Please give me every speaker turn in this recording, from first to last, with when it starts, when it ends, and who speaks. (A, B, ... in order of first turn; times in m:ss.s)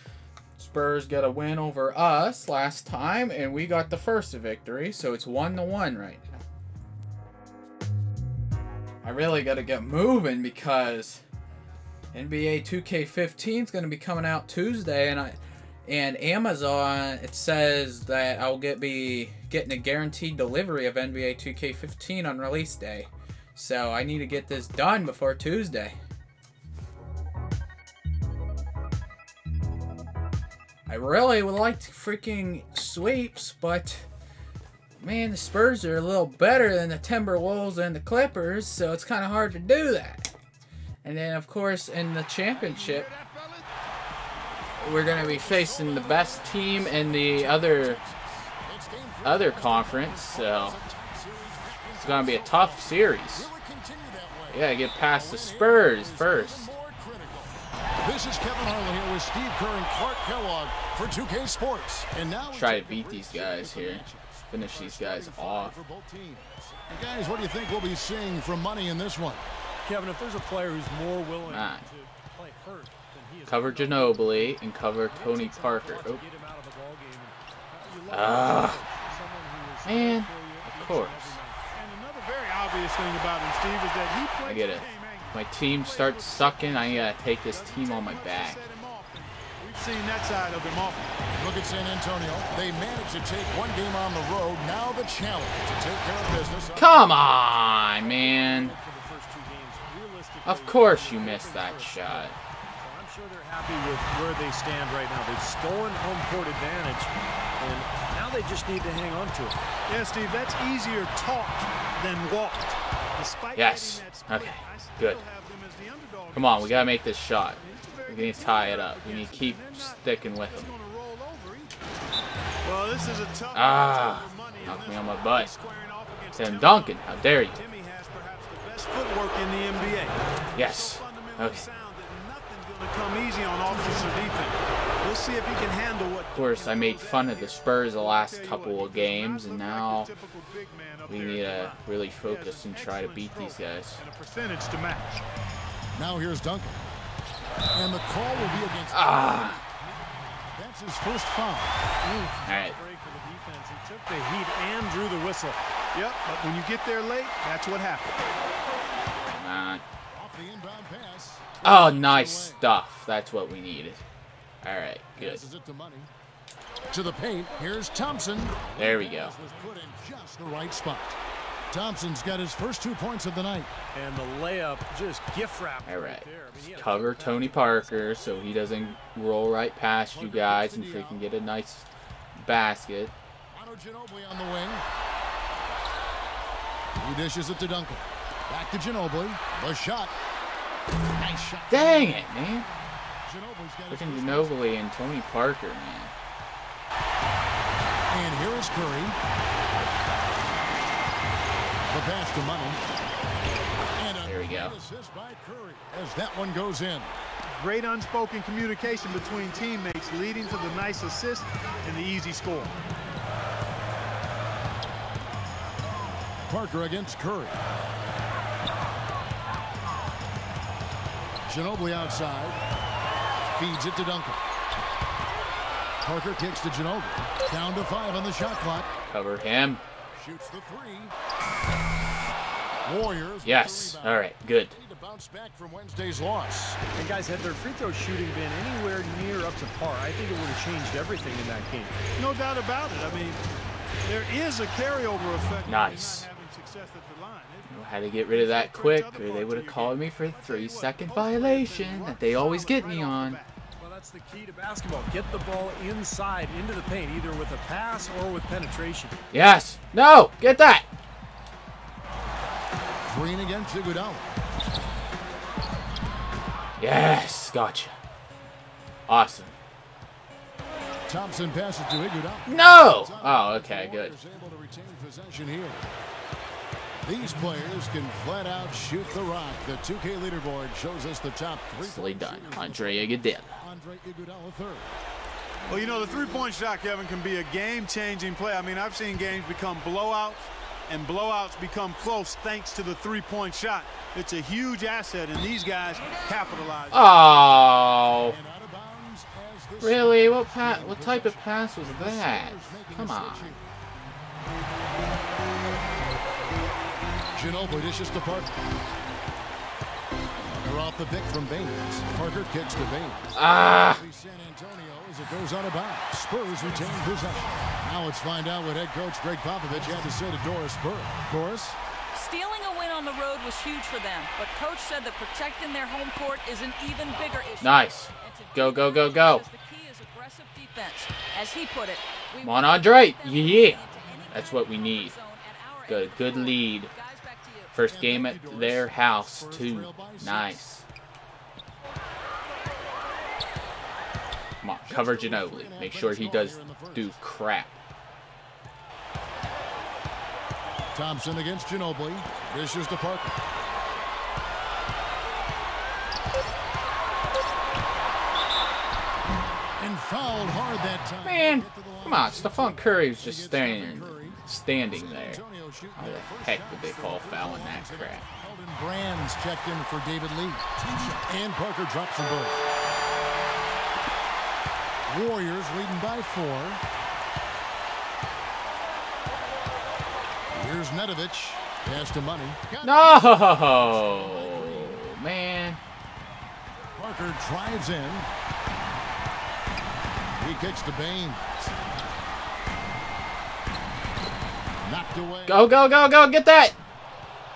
0:00.6-0:06.4 A
0:09.0-0:11.2 A
0:12.1-0:26.0 A
0:30.9-0:34.0 A
0:35.0-0:40.3 A
0:41.0-0:43.1 A
0:42.5-0:43.7 B
0:44.8-0:48.0 A
0:45.0-1:09.4 C
0:49.2-0:50.8 A
0:52.0-0:53.5 A
0:54.5-0:56.7 A
1:02.5-1:05.8 A
1:09.8-1:21.6 D
1:11.5-1:11.9 A
1:13.5-1:16.2 A
1:18.1-1:18.8 A
1:19.8-1:21.4 A
1:21.7-1:31.2 B
1:24.4-1:28.6 A
1:31.4-1:37.1 C
1:36.8-1:38.7 A
1:38.0-1:49.6 D
1:40.4-1:42.4 A
1:49.9-2:01.7 B
1:53.6-1:55.2 A
1:56.3-2:00.7 A
2:02.6-2:25.2 B
2:03.5-2:05.5 A
2:06.3-2:07.6 A
2:10.6-2:11.6 A
2:16.3-2:20.1 A
2:21.1-2:24.0 A
2:25.9-2:26.8 C
2:27.7-2:29.6 C
2:28.9-2:29.6 A
2:30.5-2:31.8 C
2:32.0-2:35.6 D
2:32.4-2:32.8 A
2:35.9-2:38.2 B
2:39.3-2:39.8 A
2:40.1-2:42.6 C
2:41.6-2:44.0 A
2:44.6-2:45.4 A
2:45.2-2:46.1 C
2:46.9-2:51.2 C
2:48.8-2:49.3 A
2:51.7-2:53.7 C
2:53.9-2:57.8 D
2:55.8-3:03.1 A
3:00.1-3:01.3 C
3:03.5-3:04.8 C
3:07.0-3:10.1 C
3:11.2-3:12.3 C
3:11.7-3:12.7 A
3:13.2-3:14.6 C
3:13.9-3:16.1 A
3:18.1-3:19.2 C
3:21.9-3:22.8 C
3:23.9-3:27.1 C
3:24.2-3:24.8 A
3:27.6-3:32.7 B
3:36.4-3:37.6 C
3:41.4-3:42.6 C
3:43.4-3:44.4 C
3:46.0-3:48.9 C
3:49.1-3:49.8 A
3:50.1-3:51.1 C
3:52.8-3:56.8 C
3:53.4-3:54.7 A
3:56.9-4:02.0 D
4:02.2-4:03.4 B
4:04.0-4:07.7 B
4:05.6-4:06.3 A
4:07.7-4:13.4 A
4:08.3-4:13.6 B
4:13.8-4:19.2 D
4:19.3-4:20.8 A
4:23.0-4:24.3 C
4:26.8-4:27.9 A
4:29.1-4:29.5 A
4:31.1-4:35.9 C
4:32.4-4:34.1 A
4:37.0-4:44.9 C
4:41.7-4:43.6 A
4:45.7-4:57.5 B
4:56.9-4:58.4 A
4:58.2-5:03.6 C
4:59.8-5:03.6 A
5:07.3-5:08.5 C
5:10.6-5:21.8 C
5:13.3-5:14.0 A
5:22.1-5:37.8 E
5:27.6-5:29.4 A
5:32.4-5:35.2 A
5:35.9-5:36.9 A
5:37.7-5:40.8 A
5:37.9-5:40.6 C
5:44.6-5:47.7 A
5:44.8-5:47.2 C
5:50.9-5:53.4 C
5:59.8-6:12.6 C
6:01.2-6:05.4 A
6:06.0-6:08.2 A
6:15.1-6:16.8 C
6:20.5-6:25.0 C
6:22.8-6:25.8 A
6:27.0-6:28.3 C
6:30.4-6:31.4 C
6:34.8-6:35.7 C
6:35.5-6:36.7 A